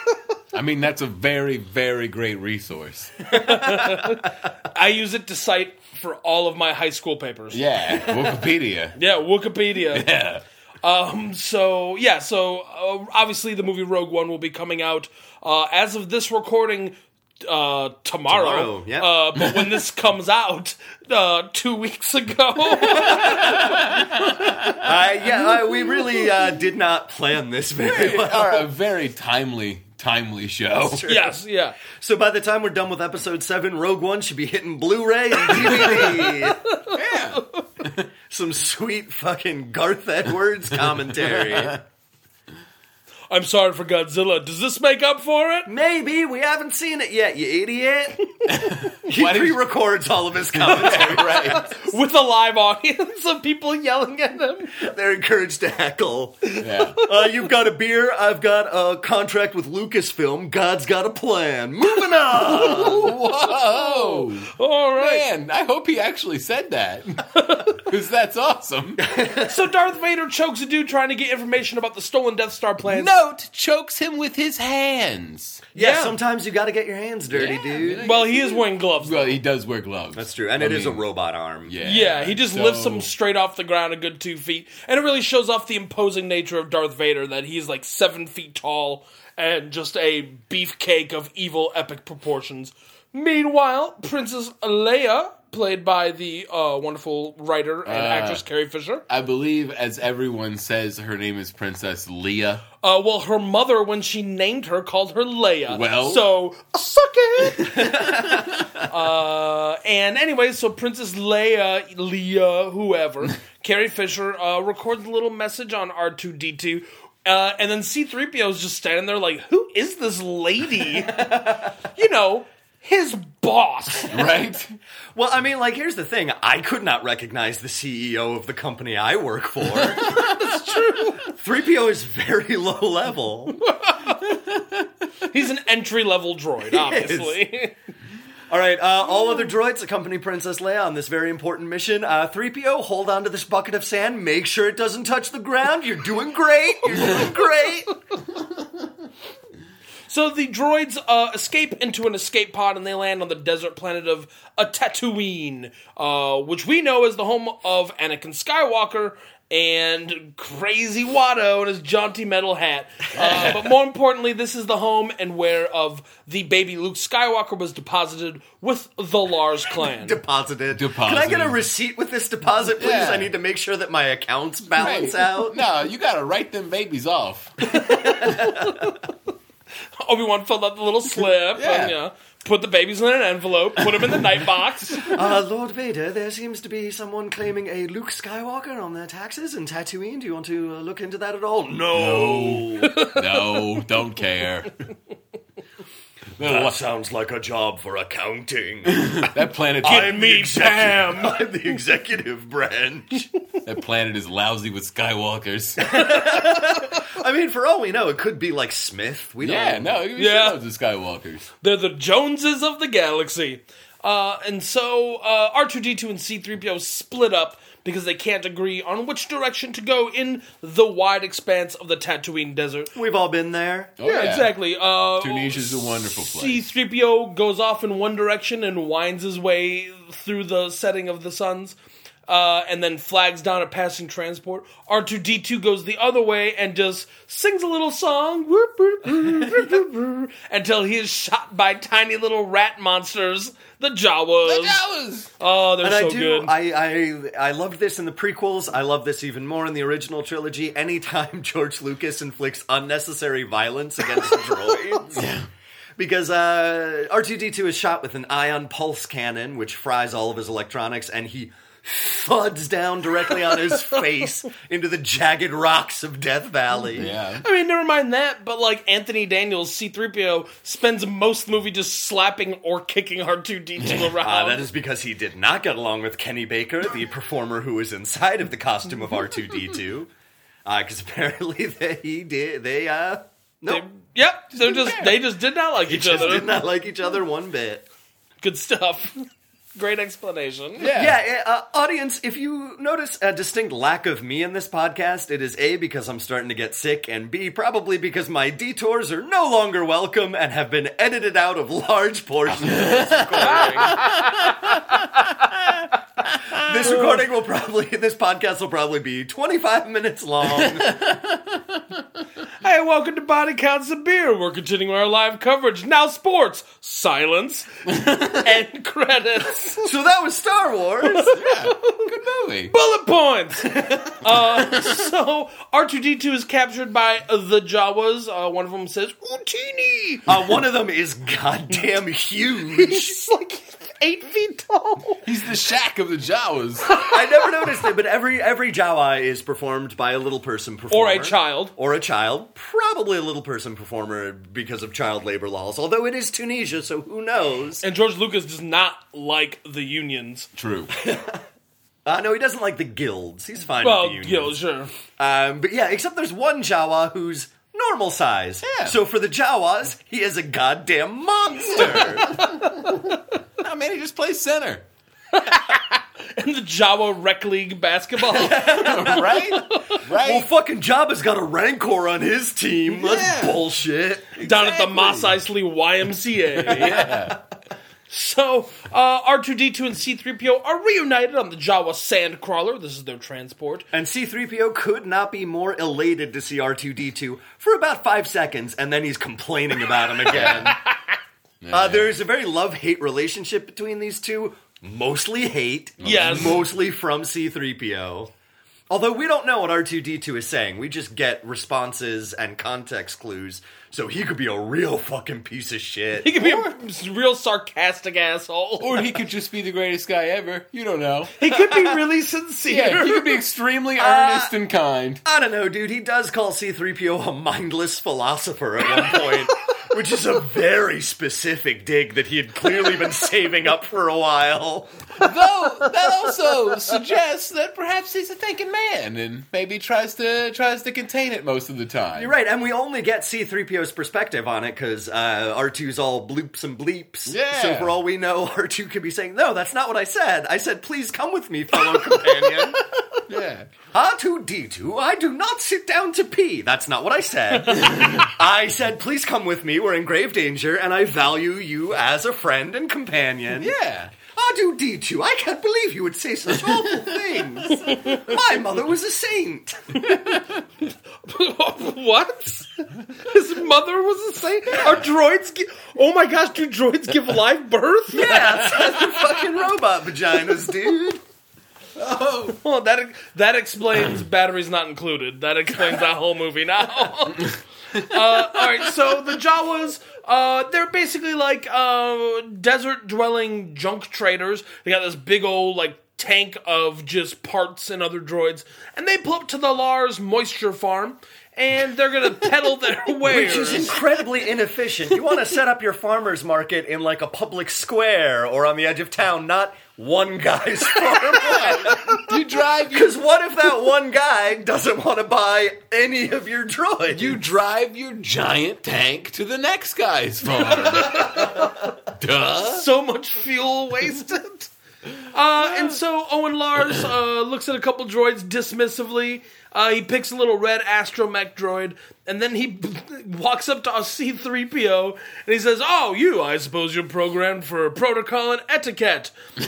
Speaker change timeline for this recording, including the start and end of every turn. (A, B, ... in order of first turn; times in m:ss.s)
0:00.5-0:03.3 A
0:03.3-0:07.6 B
0:03.6-0:04.1 C
0:07.5-0:09.0 A
0:08.9-0:10.1 B
0:09.9-0:10.4 A
0:10.8-0:24.7 B
0:18.3-0:19.1 C
0:23.0-0:24.8 A
0:23.1-0:23.5 C
0:24.7-0:28.7 C
0:27.8-0:31.1 A
0:30.8-0:36.6 C
0:31.1-0:31.8 B
0:35.4-0:37.6 B
0:35.7-0:36.1 A
0:36.9-0:38.0 A
0:38.3-0:41.8 C
0:41.4-0:41.8 A
0:43.3-0:45.7 B
0:45.6-0:48.2 C
0:48.5-0:49.6 A
0:49.0-0:51.7 C
0:50.6-0:51.6 A
0:50.9-0:54.8 B
0:54.8-0:56.4 C
0:56.5-0:57.2 B
0:56.6-0:57.0 A
0:57.0-1:03.1 C
1:02.2-1:05.2 B
1:02.7-1:09.0 A
1:07.3-1:07.8 B
1:09.0-1:09.6 C
1:09.4-1:13.1 B
1:12.9-1:15.6 A
1:15.7-1:18.0 C
1:15.8-1:16.2 B
1:17.3-1:21.0 A
1:18.0-1:19.4 B
1:20.1-1:21.8 C
1:21.6-1:23.1 A
1:21.8-1:39.0 B
1:37.9-1:38.4 A
1:39.1-1:42.6 A
1:42.8-1:48.2 B
1:45.7-1:46.2 A
1:47.6-1:48.7 A
1:47.7-1:48.6 C
1:48.8-2:04.2 B
2:01.1-2:01.7 C
2:04.1-2:04.8 A
2:05.1-2:10.1 C
2:10.0-2:10.4 A
2:10.1-2:11.3 B
2:11.2-2:13.6 C
2:13.5-2:14.3 B
2:15.3-2:17.7 B
2:16.7-2:17.4 C
2:18.5-2:27.9 C
2:30.1-2:50.2 B
2:43.1-2:43.7 A
2:49.8-2:55.6 C
2:50.7-2:51.6 A
2:52.8-2:53.3 A
2:54.8-2:57.7 A
2:57.6-2:59.0 B
2:57.9-2:58.9 C
3:00.0-3:05.1 B
3:01.5-3:02.0 A
3:03.9-3:04.2 A
3:05.1-3:13.0 C
3:11.9-3:14.7 A
3:12.8-3:13.6 B
3:16.4-3:16.8 A
3:16.4-3:19.3 C
3:18.9-3:20.2 A
3:19.8-3:23.3 C
3:19.8-3:21.4 B
3:23.6-3:26.0 A
3:25.8-3:30.0 C
3:25.9-3:27.0 B
3:29.4-3:31.5 A
3:30.2-3:30.6 B
3:31.6-3:42.9 B
3:42.9-3:43.9 C
3:44.0-3:44.5 A
3:44.0-3:51.8 B
3:45.2-3:46.6 A
3:52.3-4:04.8 B
4:04.4-4:05.3 A
4:05.4-4:06.5 B
4:05.8-4:15.2 C
4:15.1-4:15.5 A
4:16.0-4:27.1 C
4:27.0-4:27.4 A
4:27.4-4:34.6 B
4:33.8-4:34.2 A
4:34.2-4:40.1 C
4:40.6-4:43.8 C
4:43.7-4:46.5 B
4:44.6-4:45.2 A
4:45.9-4:47.9 C
4:48.4-4:50.9 B
4:50.8-4:51.2 A
4:50.9-5:04.0 C
5:02.6-5:05.0 A
5:03.5-5:04.6 B
5:06.5-5:11.0 C
5:10.5-5:11.8 A
5:12.6-5:19.9 B
5:17.9-5:18.4 A
5:19.8-5:21.4 C
5:21.0-5:22.0 B
5:21.3-5:22.7 A
5:22.7-5:30.3 B
5:23.7-5:24.2 C
5:30.3-5:33.2 C
5:32.7-5:35.2 B
5:35.2-5:36.9 A
5:37.0-5:47.8 C
5:40.9-5:41.7 B
5:47.8-5:50.5 B
5:50.6-5:50.9 A
5:50.9-5:51.4 C
5:52.0-5:54.5 C
5:53.8-5:54.9 B
5:55.1-6:02.4 C
5:58.6-5:59.0 A
6:02.3-6:03.2 B
6:03.6-6:04.8 A
6:05.3-6:10.0 B
6:08.3-6:09.3 C
6:08.6-6:10.5 A
6:10.2-6:14.4 C
6:12.9-6:13.6 A
6:14.4-6:17.1 B
6:14.4-6:15.3 A
6:16.6-6:17.4 A
6:18.1-6:23.9 B
6:23.9-6:30.8 C
6:30.3-6:30.7 A
6:30.4-6:31.1 B
6:31.6-6:32.2 A
6:31.7-6:38.3 C
6:36.0-6:36.6 B
6:36.0-6:36.6 A
6:38.9-6:46.4 C
6:46.2-6:49.1 B
6:46.4-6:46.7 A
6:48.8-6:51.3 A
6:51.4-6:53.4 B
6:52.6-6:55.2 A
6:54.0-6:54.5 C
6:55.2-7:04.9 C
7:05.2-7:12.3 A
7:12.1-7:22.8 C
7:17.3-7:18.0 A
7:23.3-7:23.7 A
7:23.9-7:33.7 C
7:27.6-7:28.2 B
7:27.8-7:28.2 A
7:33.6-7:34.1 A
7:34.3-7:40.0 C
7:36.7-7:37.4 A
7:37.7-7:38.3 B
7:40.2-7:40.4 A
7:41.2-7:48.7 B
7:48.1-7:51.2 C
7:48.7-7:49.0 A
7:52.0-7:52.6 A
7:52.5-8:14.0 B
7:58.1-7:58.7 A
8:13.2-8:22.4 C
8:21.4-8:23.1 A
8:22.9-8:27.4 C
8:27.1-8:32.9 A
8:30.6-8:31.8 B
8:32.6-8:34.7 B
8:35.3-8:49.3 B